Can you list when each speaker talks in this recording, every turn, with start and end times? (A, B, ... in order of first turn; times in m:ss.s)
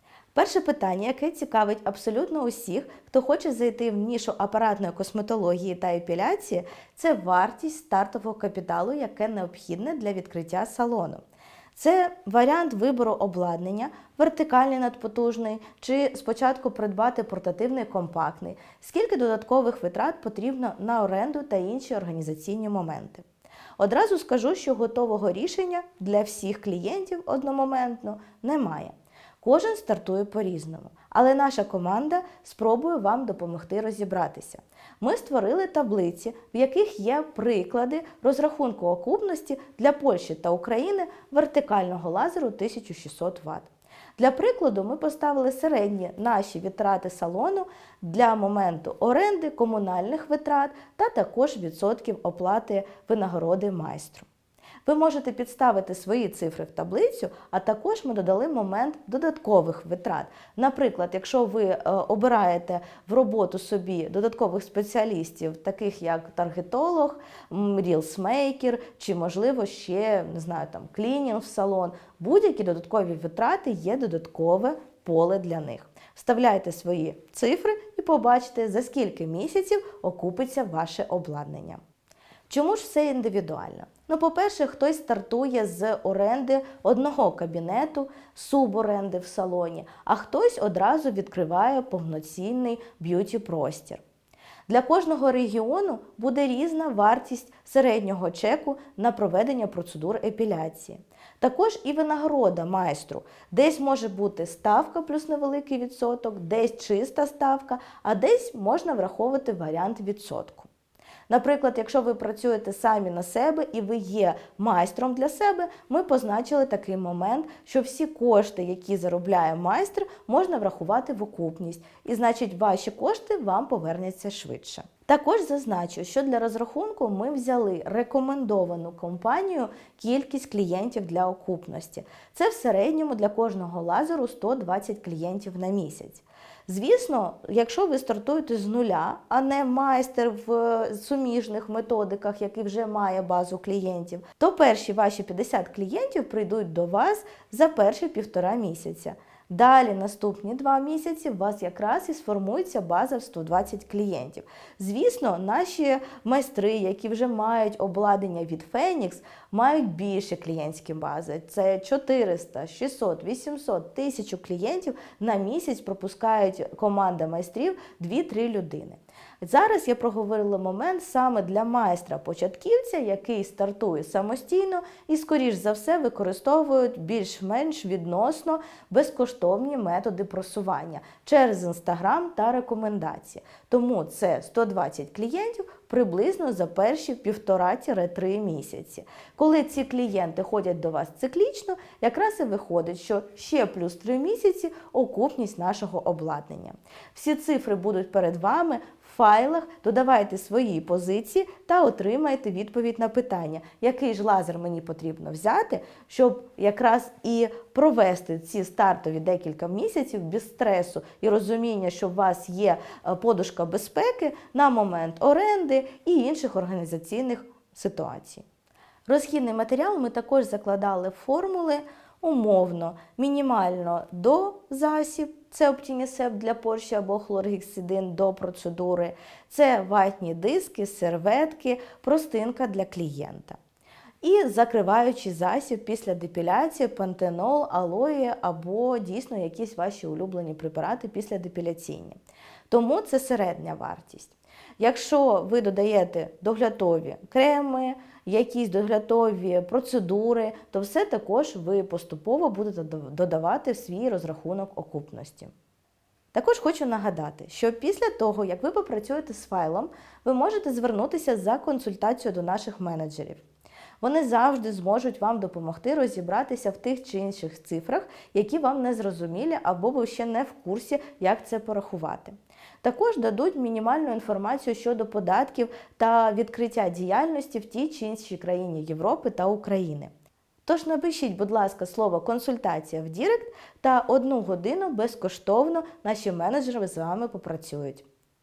0:00.3-0:11.2 A
0:11.7-0:23.2 A
0:23.8-0:54.3 A
0:54.8-1:21.8 A
1:22.5-1:34.0 A
1:34.7-1:50.7 A
1:51.3-3:38.4 A
3:39.1-3:53.6 A
3:54.2-4:02.2 A
4:02.7-4:15.5 A
4:16.3-4:23.4 A
4:24.0-4:40.1 A
4:40.6-4:48.0 A